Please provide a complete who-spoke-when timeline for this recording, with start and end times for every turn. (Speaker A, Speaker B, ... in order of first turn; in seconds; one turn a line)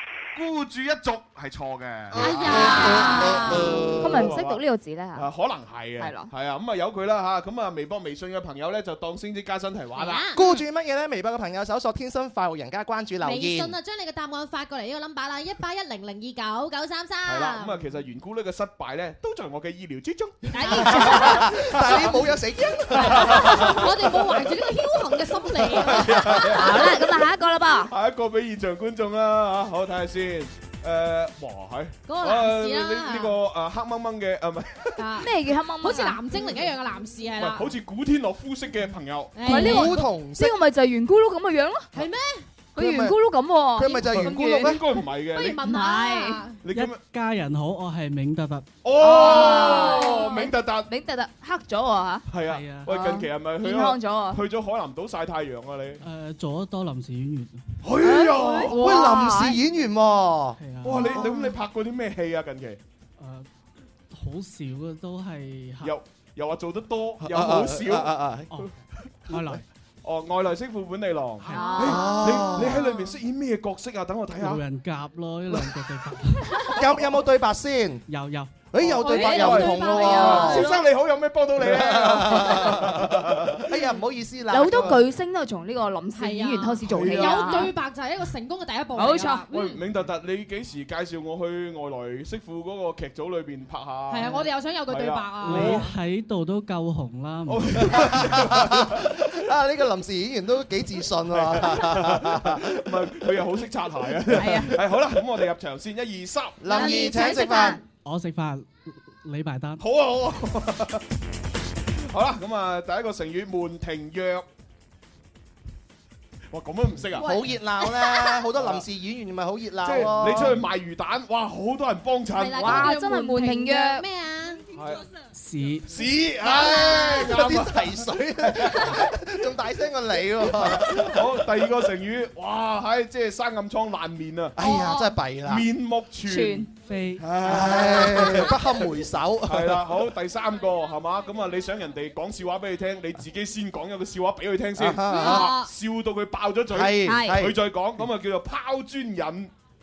Speaker A: 0.3-4.6
Speaker B: 2.1-4.2
Speaker C: 2.2-3.9
Speaker D: 2.8-3.3
Speaker D: 4.0-5.3
Speaker A: 5.2-10.5
Speaker D: 6.0-6.3
Speaker C: 9.9-10.4
Speaker B: 10.3-13.8
Speaker C: 13.2-17.9
Speaker A: 17.3-22.3
Speaker C: 20.5-21.5
Speaker B: 20.9-23.8
Speaker A: 22.9-24.4
Speaker C: 23.0-26.9
Speaker A: 25.7-26.9
Speaker D: 26.6-27.9
Speaker A: 27.9-35.2
Speaker C: 32.1-33.3
Speaker C: 35.0-37.7
Speaker D: 35.2-36.2
Speaker A: 37.4-39.7
Speaker C: 39.4-40.0
Speaker D: 39.5-41.9
Speaker B: 39.5-40.6
Speaker C: 41.9-42.5
Speaker B: 42.8-43.2
Speaker D: 42.8-44.8
Speaker B: 43.8-44.8
Speaker A: 44.1-45.6
Speaker C: 45.3-46.6
Speaker D: 45.6-46.4
Speaker A: 46.6-47.0
Speaker E: 46.7-48.7
Speaker A: 48.8-50.9
Speaker D: 49.0-52.3
Speaker C: 49.1-50.4
Speaker A: 52.3-56.0
Speaker E: 52.5-52.9
Speaker D: 52.9-54.4
Speaker E: 56.0-57.6
Speaker A: 57.8-58.9
Speaker D: 58.0-59.6
Speaker B: 58.8-60.6
Speaker E: 60.6-61.1
Speaker A: 60.8-62.8
Speaker E: 63.2-63.5
Speaker E: 64.1-66.0
Speaker A: 65.8-68.1
Speaker B: 67.2-68.5
Speaker E: 69.3-69.6
Speaker A: 70.0-74.6
Speaker E: 71.5-71.8
Speaker D: 71.5-72.6
Speaker B: 71.8-72.9
Speaker E: 74.4-76.6
Speaker B: 76.8-78.0
Speaker E: 78.1-78.7
Speaker B: 78.7-80.7
Speaker A: 78.8-83.7
Speaker C: 79.0-80.6
Speaker D: 79.1-80.8
Speaker B: 81.6-85.0
Speaker D: 84.5-87.7
Speaker C: 86.1-89.8
Speaker A: 86.8-87.7
Speaker D: 89.0-89.5
Speaker A: 89.5-95.9
Speaker C: 94.1-95.9
Speaker E: 95.5-98.3
Speaker A: 97.5-99.2
Speaker B: 97.9-103.0
Speaker A: 101.3-107.0
Speaker D: 104.3-104.8
Speaker B: 106.6-107.8
Speaker D: 106.7-107.8
Speaker C: 106.7-107.8
Speaker E: 108.0-109.8
Speaker A: 109.8-111.0
Speaker A: 112.1-114.5
Speaker A: 116.5-117.3
Speaker B: 117.2-120.6
Speaker A: 118.5-118.8
Speaker A: 119.8-122.9
Speaker C: 122.3-124.6
Speaker D: 122.6-124.0
Speaker A: 124.7-125.0
Speaker E: 125.3-125.9
Speaker A: 125.9-129.1
Speaker B: 126.5-131.3
Speaker A: 130.4-134.6
Speaker B: 134.6-135.6
Speaker A: 135.4-136.7
Speaker D: 136.3-136.7
Speaker E: 136.8-137.3
Speaker A: 137.2-138.6
Speaker B: 137.4-140.0
Speaker A: 139.5-149.5
Speaker B: 144.8-145.5
Speaker C: 145.1-145.7
Speaker B: 146.7-147.6
Speaker D: 147.1-147.4